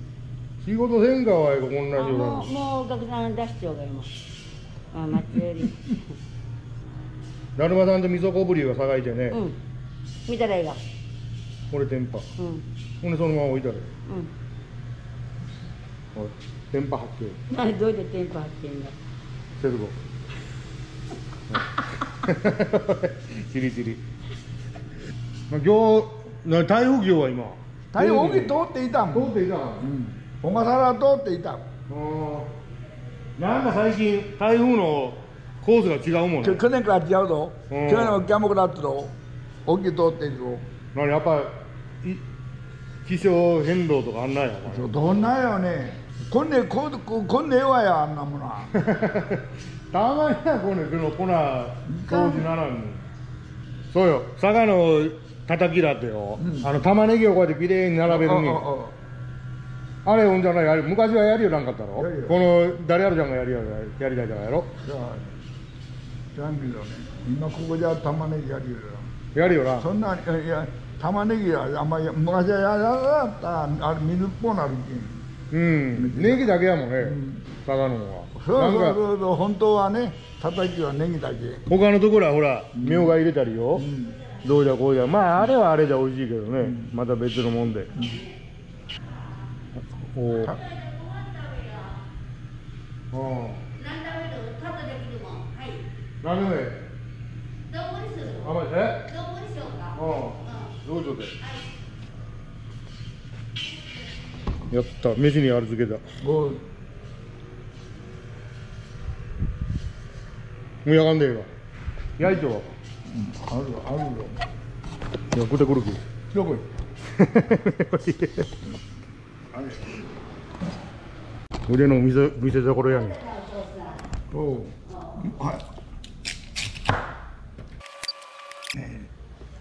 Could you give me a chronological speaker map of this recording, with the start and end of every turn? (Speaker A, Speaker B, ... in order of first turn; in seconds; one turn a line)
Speaker A: 0.6-2.5
Speaker B: 1.9-4.1
Speaker B: 4.9-6.0
Speaker A: 7.6-9.4
Speaker B: 9.3-9.6
Speaker B: 10.3-10.8
Speaker A: 11.7-12.3
Speaker B: 12.4-12.7
Speaker A: 13.0-13.9
Speaker A: 16.1-17.4
Speaker B: 17.5-18.9
Speaker A: 19.6-20.0
Speaker A: 21.5-24.0
Speaker A: 25.5-28.6
Speaker C: 27.9-31.6
Speaker A: 29.1-29.9
Speaker A: 31.9-32.5
Speaker A: 33.4-36.6
Speaker C: 36.4-39.1
Speaker A: 37.7-38.3
Speaker C: 39.7-40.6
Speaker A: 40.9-42.2
Speaker A: 43.0-44.9
Speaker C: 44.7-48.7
Speaker A: 48.7-53.1
Speaker C: 51.9-52.5
Speaker A: 53.9-58.6
Speaker C: 56.4-56.7
Speaker C: 58.1-59.0
Speaker A: 60.0-64.7
Speaker C: 62.0-62.4
Speaker C: 64.8-65.4
Speaker C: 66.3-69.1
Speaker A: 69.3-69.9
Speaker C: 69.8-75.2
Speaker A: 75.5-79.0
Speaker C: 76.0-77.4
Speaker C: 78.4-81.6
Speaker A: 81.7-83.9
Speaker C: 82.8-83.2
Speaker C: 83.8-84.2
Speaker A: 84.4-87.9
Speaker A: 89.8-90.6
Speaker B: 90.3-92.0
Speaker A: 93.1-93.7
Speaker B: 93.7-95.8
Speaker A: 96.2-96.8
Speaker B: 97.7-100.8
Speaker A: 98.4-99.1
Speaker A: 100.0-101.4
Speaker B: 101.4-101.6
Speaker A: 104.7-106.0
Speaker C: 106.2-106.7
Speaker A: 110.8-111.5
Speaker A: 112.2-112.7
Speaker C: 113.1-114.4
Speaker A: 115.3-116.0
Speaker C: 116.3-116.7
Speaker A: 117.1-118.6
Speaker C: 119.5-120.0
Speaker A: 121.7-123.2
Speaker B: 123.1-124.0
Speaker C: 124.3-125.7
Speaker C: 128.7-129.1